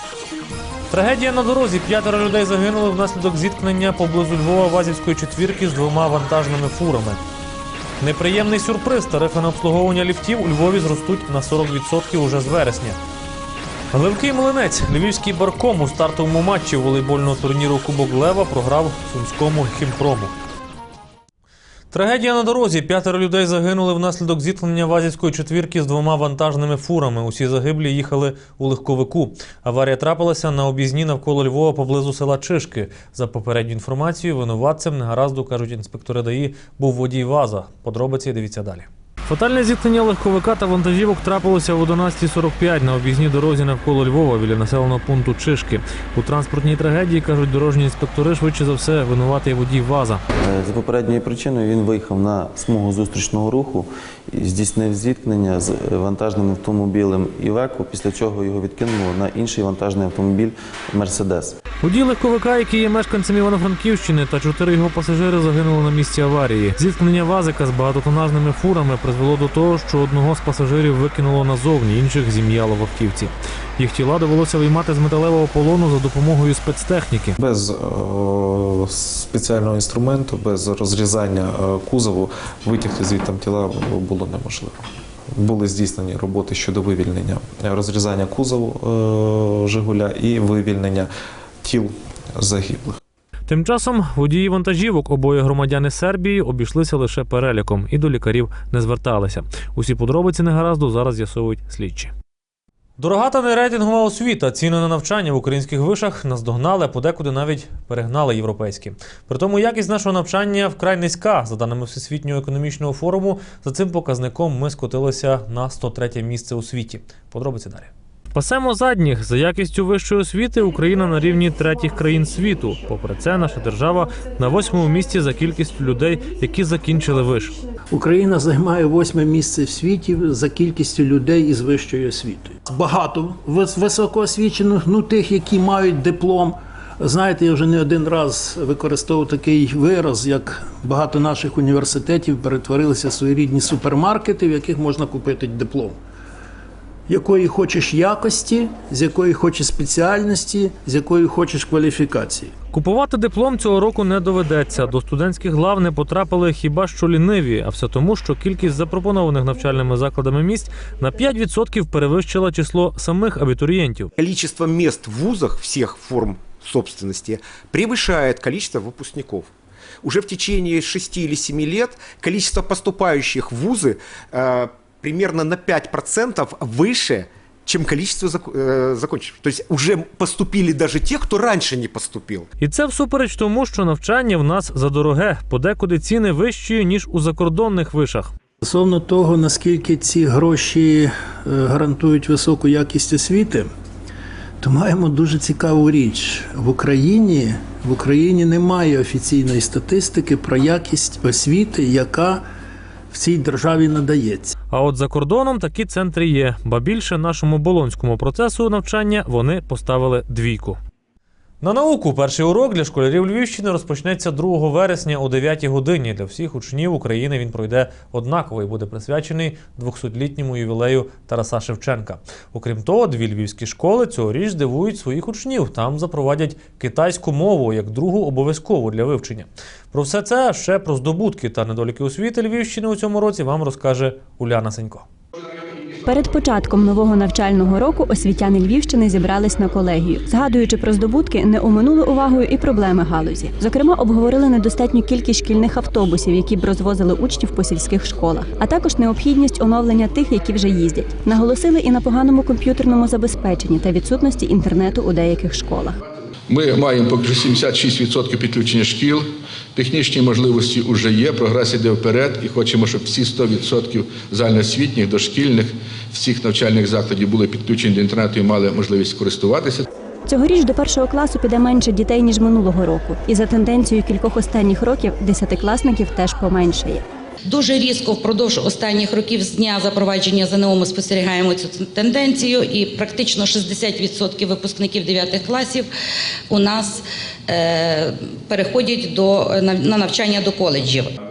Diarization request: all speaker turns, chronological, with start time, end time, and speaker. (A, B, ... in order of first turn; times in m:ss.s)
0:00.9-0:07.2 A
0:08.0-0:13.0 A
0:13.9-0:20.4 A
0:21.9-0:50.2 A
0:50.4-1:01.6 B
1:01.8-1:17.4 A
1:17.4-1:24.8 C
1:25.3-1:31.1 C
1:31.6-1:33.0 C
1:33.5-1:42.1 A
1:43.0-2:07.6 A
2:07.9-2:26.0 D
2:27.1-2:32.5 D
2:32.7-2:44.1 A
2:44.2-2:49.5 E
2:50.0-3:02.5 E
3:02.6-3:08.3 A
3:08.6-3:13.7 D
3:14.6-3:22.4 D
3:23.1-3:24.6 D
3:24.7-3:30.8 A
3:31.6-3:55.0 A
3:56.0-4:16.0 F
4:16.5-4:19.2 G
4:19.8-4:29.8 G
4:30.3-4:37.0 F
4:37.5-4:45.9 H
4:46.5-4:51.1 H